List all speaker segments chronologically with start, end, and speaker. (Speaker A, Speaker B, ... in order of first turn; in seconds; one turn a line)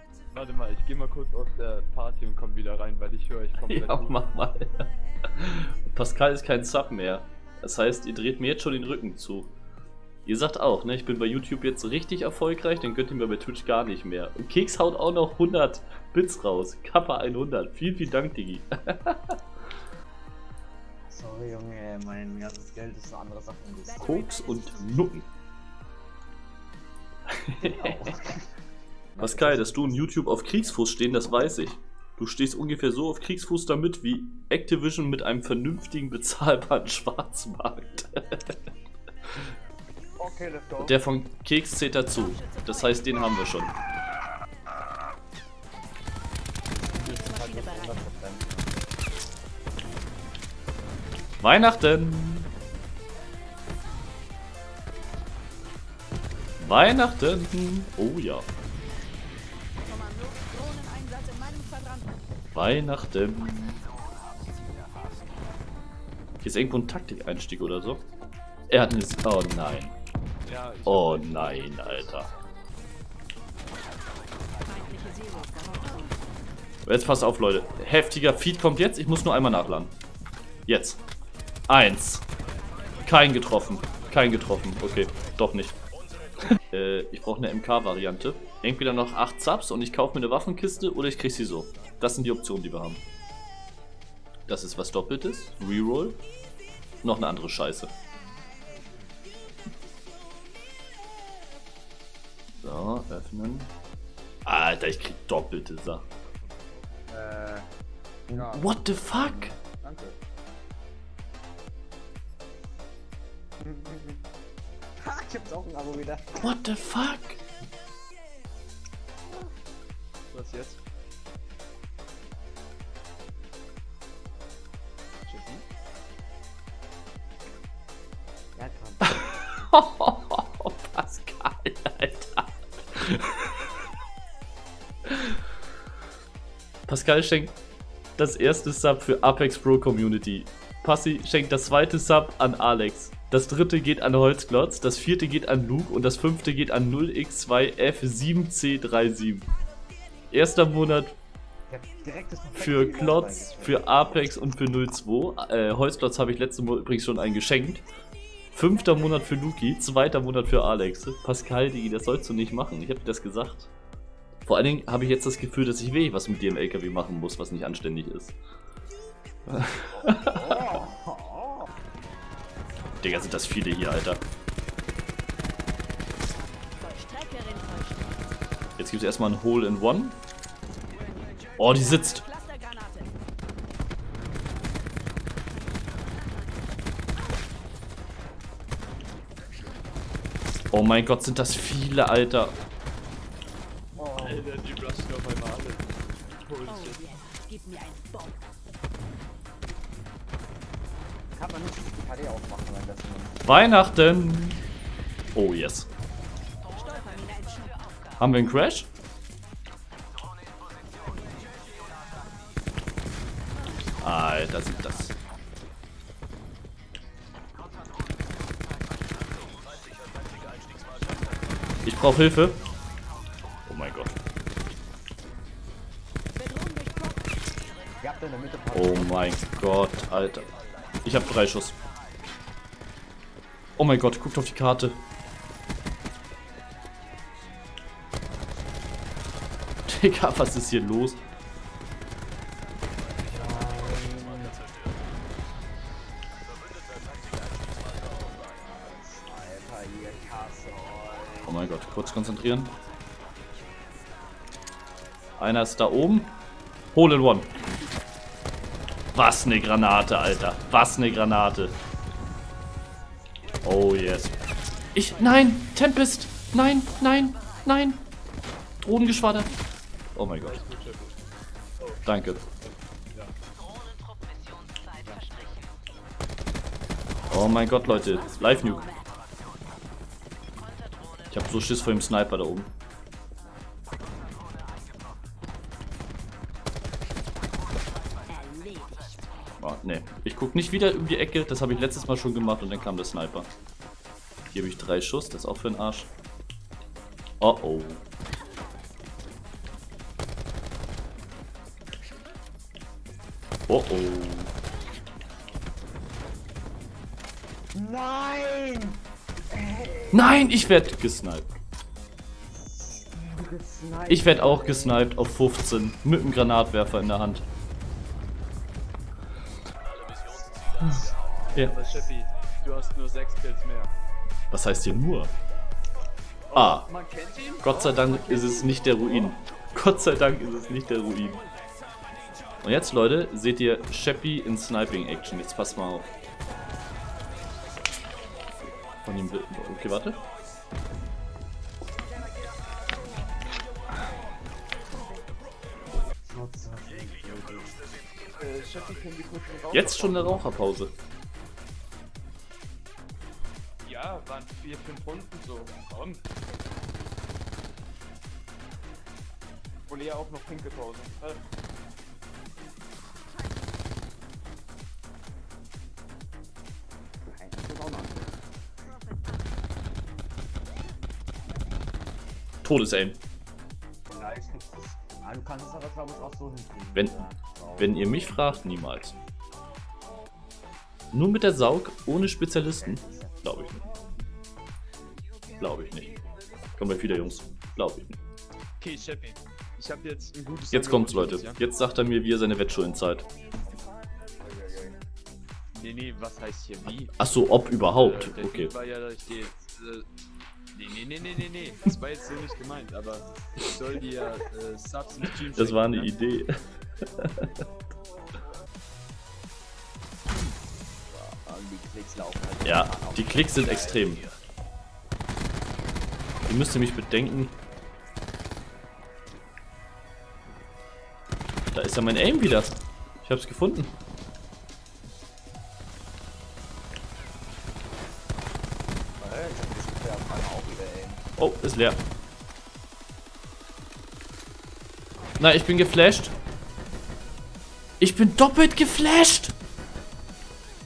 Speaker A: 0.3-4.2
Speaker B: 3.6-9.5
Speaker B: 10.2-19.4
Speaker C: 21.1-24.1
Speaker D: 23.9-25.1
Speaker B: 24.0-25.2
Speaker B: 27.3-28.1
Speaker C: 27.6-28.5
Speaker B: 29.2-38.5
Speaker C: 29.4-30.0
Speaker A: 40.2-41.0
Speaker B: 40.8-43.7
Speaker D: 42.1-43.5
Speaker C: 46.8-48.7
Speaker D: 46.9-48.0
Speaker B: 51.4-52.5
Speaker B: 56.6-58.5
Speaker D: 59.8-62.1
Speaker B: 62.5-63.8
Speaker B: 66.4-68.0
Speaker B: 68.7-69.9
Speaker A: 70.5-72.3
Speaker B: 70.9-72.3
Speaker D: 74.6-76.1
Speaker B: 76.8-79.9
Speaker B: 80.7-81.0
Speaker B: 81.7-82.2
Speaker B: 83.0-85.8
Speaker B: 86.7-93.0
Speaker B: 94.5-96.2
Speaker B: 97.0-97.9
Speaker B: 102.6-103.7
Speaker B: 104.5-106.0
Speaker C: 107.1-107.7
Speaker C: 108.3-108.6
Speaker A: 108.3-108.7
Speaker B: 108.5-109.5
Speaker C: 109.2-109.5
Speaker A: 109.8-110.2
Speaker C: 115.0-116.5
Speaker B: 116.4-117.4
Speaker A: 120.3-120.8
Speaker A: 125.3-125.6
Speaker C: 128.6-129.2
Speaker B: 129.0-133.7
Speaker B: 135.1-135.4
Speaker B: 136.9-137.5
Speaker B: 138.2-149.5
Speaker B: 150.3-151.2
Speaker C: 151.7-154.3
Speaker B: 152.5-157.8
Speaker B: 158.5-163.7
Speaker B: 164.4-168.4
Speaker B: 169.5-170.8
Speaker C: 170.0-171.7
Speaker B: 173.0-174.2
Speaker D: 176.8-178.3
Speaker B: 178.8-180.2
Speaker D: 181.1-183.1
Speaker B: 181.6-182.2
Speaker B: 190.7-192.5
Speaker C: 193.9-194.5
Speaker A: 194.2-197.0
Speaker D: 196.7-198.4
Speaker C: 201.3-203.4
Speaker B: 203.4-204.6
Speaker B: 205.3-205.9
Speaker D: 206.7-208.1
Speaker B: 208.2-208.9
Speaker B: 214.0-215.2
Speaker B: 221.8-222.6
Speaker B: 223.7-224.2
Speaker D: 226.4-227.2
Speaker C: 228.0-229.2
Speaker B: 228.7-231.8
Speaker B: 233.8-235.0
Speaker B: 239.9-241.2
Speaker C: 243.2-244.6
Speaker C: 248.6-251.5
Speaker B: 251.5-252.7
Speaker B: 255.4-256.4
Speaker B: 256.9-257.5
Speaker B: 259.1-261.8
Speaker B: 263.6-264.4
Speaker B: 264.9-268.0
Speaker B: 268.8-269.5
Speaker B: 270.1-270.6
Speaker A: 270.4-271.2
Speaker B: 272.1-272.4
Speaker A: 272.6-273.3
Speaker D: 275.2-275.5
Speaker B: 277.3-278.9
Speaker D: 277.9-279.1
Speaker B: 281.3-282.7
Speaker D: 288.3-289.2
Speaker B: 289.6-293.5
Speaker B: 294.5-296.1
Speaker B: 297.4-298.0
Speaker B: 303.7-304.5
Speaker C: 307.7-309.0
Speaker C: 309.5-310.6
Speaker B: 310.1-311.5
Speaker C: 312.5-315.1
Speaker B: 314.1-317.4
Speaker A: 319.9-323.9
Speaker B: 324.5-325.3
Speaker A: 326.5-329.4
Speaker B: 326.5-326.9
Speaker B: 327.6-331.4
Speaker B: 332.6-336.1
Speaker B: 339.0-340.2
Speaker C: 346.2-347.8
Speaker A: 348.3-350.7
Speaker B: 349.7-350.9
Speaker A: 353.8-356.2
Speaker A: 359.9-361.4
Speaker A: 367.2-368.4
Speaker B: 372.6-373.2
Speaker C: 374.1-378.6
Speaker B: 376.9-379.1
Speaker B: 381.1-383.9
Speaker C: 382.8-383.4
Speaker B: 385.6-386.1
Speaker B: 386.8-388.2
Speaker A: 388.8-391.6
Speaker B: 390.7-393.3
Speaker C: 394.4-395.0
Speaker A: 395.7-397.1
Speaker B: 397.2-398.7
Speaker A: 397.9-400.1
Speaker A: 400.7-406.1
Speaker B: 405.6-406.5
Speaker B: 407.2-407.5
Speaker C: 411.1-414.1
Speaker B: 412.6-414.3
Speaker B: 416.5-417.6
Speaker B: 421.7-423.9
Speaker C: 429.2-431.2
Speaker B: 431.4-432.0
Speaker B: 435.4-436.3
Speaker B: 438.0-439.5